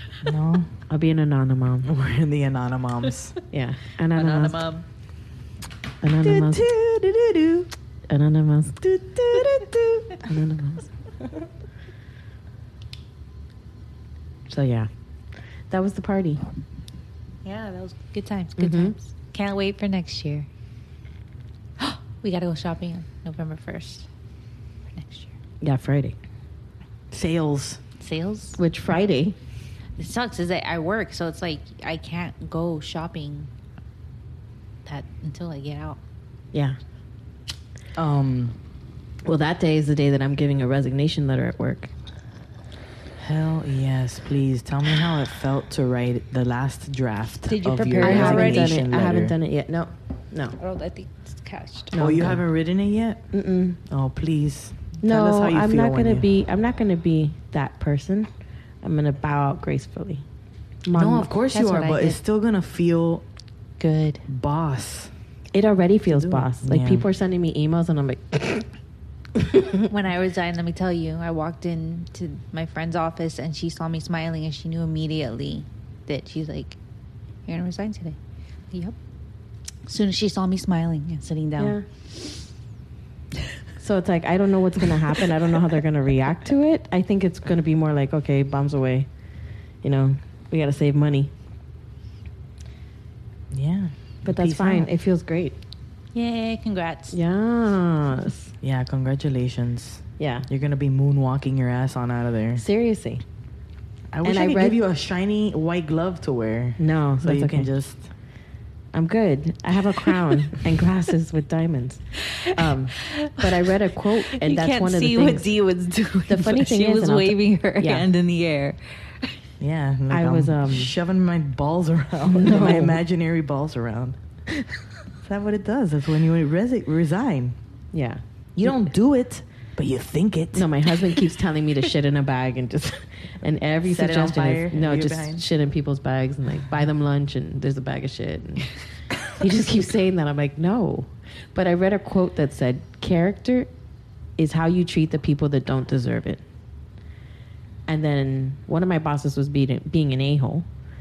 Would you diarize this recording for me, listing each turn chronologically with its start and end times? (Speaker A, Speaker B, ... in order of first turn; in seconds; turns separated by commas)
Speaker A: 0.2-0.8, Speaker B: 0.9-1.9, Speaker A: 1.8-3.4, Speaker B: 3.5-4.6, Speaker C: 4.1-4.9, Speaker B: 6.0-6.7, Speaker A: 6.2-7.7, Speaker B: 8.1-8.8, Speaker A: 8.8-10.3, Speaker B: 10.2-10.9, Speaker B: 14.5-14.9, Speaker B: 15.7-16.4, Speaker C: 17.4-20.5, Speaker B: 18.6-18.9, Speaker C: 21.8-24.1, Speaker C: 24.9-25.3, Speaker B: 25.6-26.1, Speaker A: 27.1-27.8, Speaker C: 28.0-28.6, Speaker B: 28.6-29.4, Speaker C: 30.0-33.5, Speaker C: 34.9-36.0, Speaker A: 38.0-38.6, Speaker B: 39.2-41.9, Speaker A: 43.2-49.4, Speaker C: 47.5-48.8, Speaker B: 48.0-50.6, Speaker C: 50.6-51.9, Speaker B: 51.9-52.4, Speaker A: 52.0-53.2, Speaker B: 53.3-53.8, Speaker A: 53.9-56.3, Speaker B: 55.0-58.3, Speaker B: 58.8-60.2, Speaker B: 60.9-61.3, Speaker A: 60.9-63.2, Speaker C: 61.5-62.2, Speaker C: 63.8-64.2, Speaker A: 64.3-65.1, Speaker B: 65.5-68.7, Speaker A: 66.1-67.0, Speaker B: 69.4-69.9, Speaker C: 69.9-76.8, Speaker C: 77.5-78.2, Speaker C: 79.9-81.8, Speaker B: 81.6-81.8, Speaker B: 83.8-89.1, Speaker B: 89.8-91.3, Speaker A: 93.5-94.9, Speaker B: 94.2-95.6, Speaker C: 96.1-97.2, Speaker B: 97.1-98.5, Speaker A: 98.6-102.6, Speaker B: 100.2-100.5, Speaker B: 102.6-103.2, Speaker A: 104.1-108.1, Speaker B: 104.2-104.8, Speaker B: 106.8-107.7, Speaker B: 108.9-115.5, Speaker C: 112.3-119.4, Speaker B: 116.2-118.1, Speaker A: 119.6-124.6, Speaker B: 120.1-120.9, Speaker B: 122.2-123.0, Speaker A: 125.2-127.6, Speaker B: 127.9-128.7, Speaker A: 128.6-130.9, Speaker B: 130.5-138.7, Speaker A: 133.8-135.4, Speaker B: 139.2-143.7, Speaker B: 144.4-146.4, Speaker B: 147.9-150.7